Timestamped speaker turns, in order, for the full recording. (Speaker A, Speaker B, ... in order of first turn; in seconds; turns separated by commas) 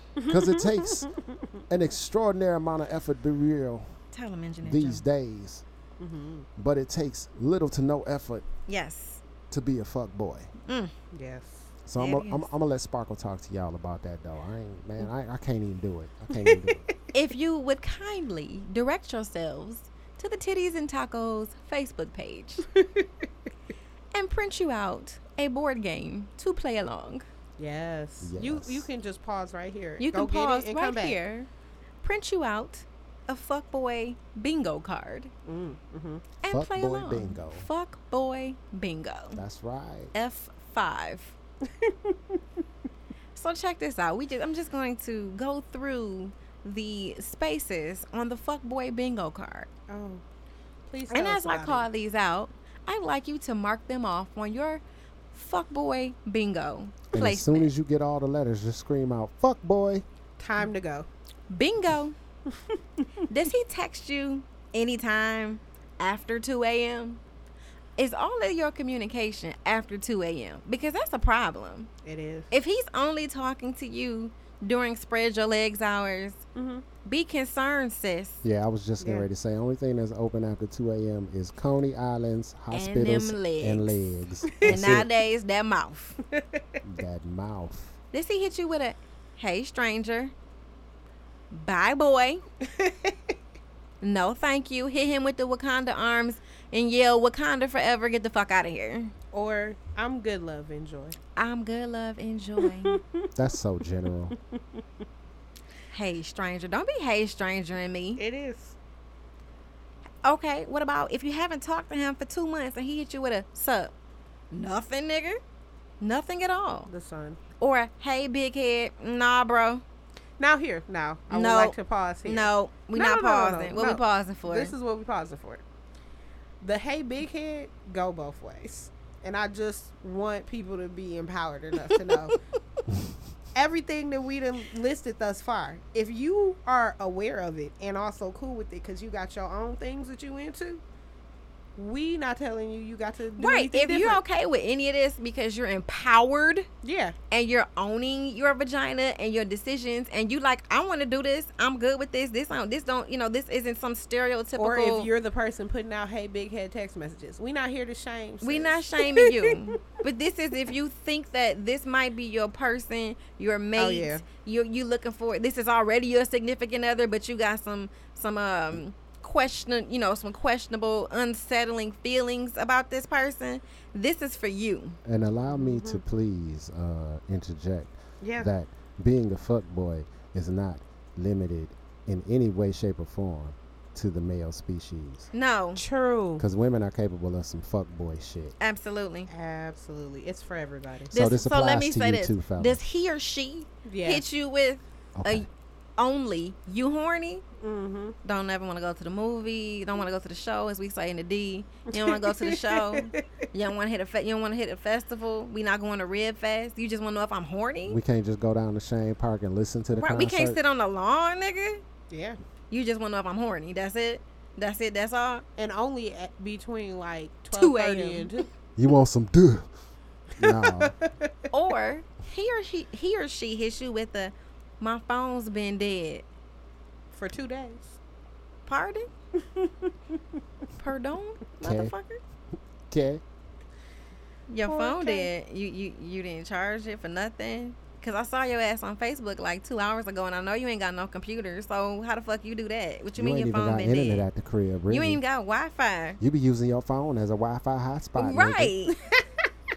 Speaker A: 0.2-1.2, Speaker B: 0.3-1.1, Speaker B: 1.7-3.9, Speaker C: 4.1-5.0, Speaker B: 4.6-5.6, Speaker A: 6.0-6.5, Speaker B: 6.5-8.4, Speaker C: 8.7-9.2, Speaker B: 9.5-10.5, Speaker C: 10.6-10.9, Speaker A: 11.1-11.7, Speaker B: 11.8-16.9, Speaker C: 12.0-12.5, Speaker A: 16.3-16.9, Speaker C: 17.1-22.6, Speaker A: 22.7-23.2, Speaker C: 24.1-27.2, Speaker A: 27.6-31.2, Speaker B: 28.2-28.9, Speaker C: 30.0-31.5, Speaker C: 32.0-35.3, Speaker A: 35.4-36.2, Speaker C: 36.4-39.4, Speaker B: 36.5-37.7, Speaker B: 39.4-40.1, Speaker C: 40.1-41.3, Speaker A: 41.8-42.4, Speaker C: 43.3-49.7, Speaker A: 49.9-50.2, Speaker A: 50.9-51.9, Speaker C: 51.1-54.8, Speaker C: 55.3-57.7, Speaker B: 57.1-60.0, Speaker A: 60.4-61.1, Speaker C: 61.5-62.1, Speaker C: 63.3-67.2, Speaker C: 68.0-71.9, Speaker A: 72.0-72.5, Speaker C: 72.5-76.4, Speaker A: 76.5-76.8, Speaker C: 77.0-78.4, Speaker B: 78.4-85.1, Speaker A: 79.0-79.3, Speaker C: 82.7-84.1, Speaker C: 84.6-86.2, Speaker A: 86.3-86.6, Speaker B: 86.8-87.9, Speaker C: 88.1-90.3, Speaker C: 91.5-92.4, Speaker A: 92.6-93.1, Speaker C: 94.0-99.1, Speaker A: 99.3-101.2, Speaker C: 101.3-103.0, Speaker A: 102.8-103.3, Speaker B: 103.3-104.3, Speaker C: 105.9-108.2, Speaker A: 108.2-108.8, Speaker C: 110.2-113.9, Speaker C: 114.5-115.4, Speaker C: 116.0-116.9, Speaker A: 116.9-117.4, Speaker C: 117.6-119.8, Speaker A: 120.4-125.6, Speaker C: 121.3-124.7, Speaker A: 126.6-132.3, Speaker A: 133.5-140.8, Speaker A: 141.8-144.2, Speaker C: 143.4-146.7, Speaker A: 146.8-147.1, Speaker C: 147.3-155.1, Speaker A: 154.6-159.8, Speaker C: 158.4-175.0, Speaker A: 163.8-164.2, Speaker B: 175.0-185.3, Speaker A: 175.5-176.0, Speaker A: 178.2-178.5, Speaker C: 185.3-185.8, Speaker A: 185.8-186.4, Speaker B: 186.4-188.5, Speaker C: 188.6-189.3, Speaker A: 189.3-191.1, Speaker B: 191.1-192.8, Speaker C: 191.1-197.4, Speaker A: 193.8-194.2, Speaker B: 195.2-195.4, Speaker A: 197.6-198.2, Speaker C: 198.2-208.0, Speaker A: 201.9-203.2, Speaker B: 207.9-210.6, Speaker C: 209.9-211.8, Speaker A: 212.1-212.4, Speaker C: 212.7-215.4, Speaker A: 215.6-218.5, Speaker C: 217.5-218.3, Speaker B: 218.8-219.7, Speaker B: 220.4-220.9, Speaker A: 220.4-221.3, Speaker C: 221.5-226.2, Speaker A: 227.1-228.0, Speaker C: 228.7-229.1, Speaker A: 229.4-229.9, Speaker C: 230.8-232.2, Speaker B: 231.6-231.9, Speaker B: 232.9-233.2, Speaker C: 234.5-244.3, Speaker A: 234.7-235.3, Speaker B: 243.2-245.2, Speaker C: 244.9-246.2, Speaker B: 246.2-248.7, Speaker C: 248.2-248.9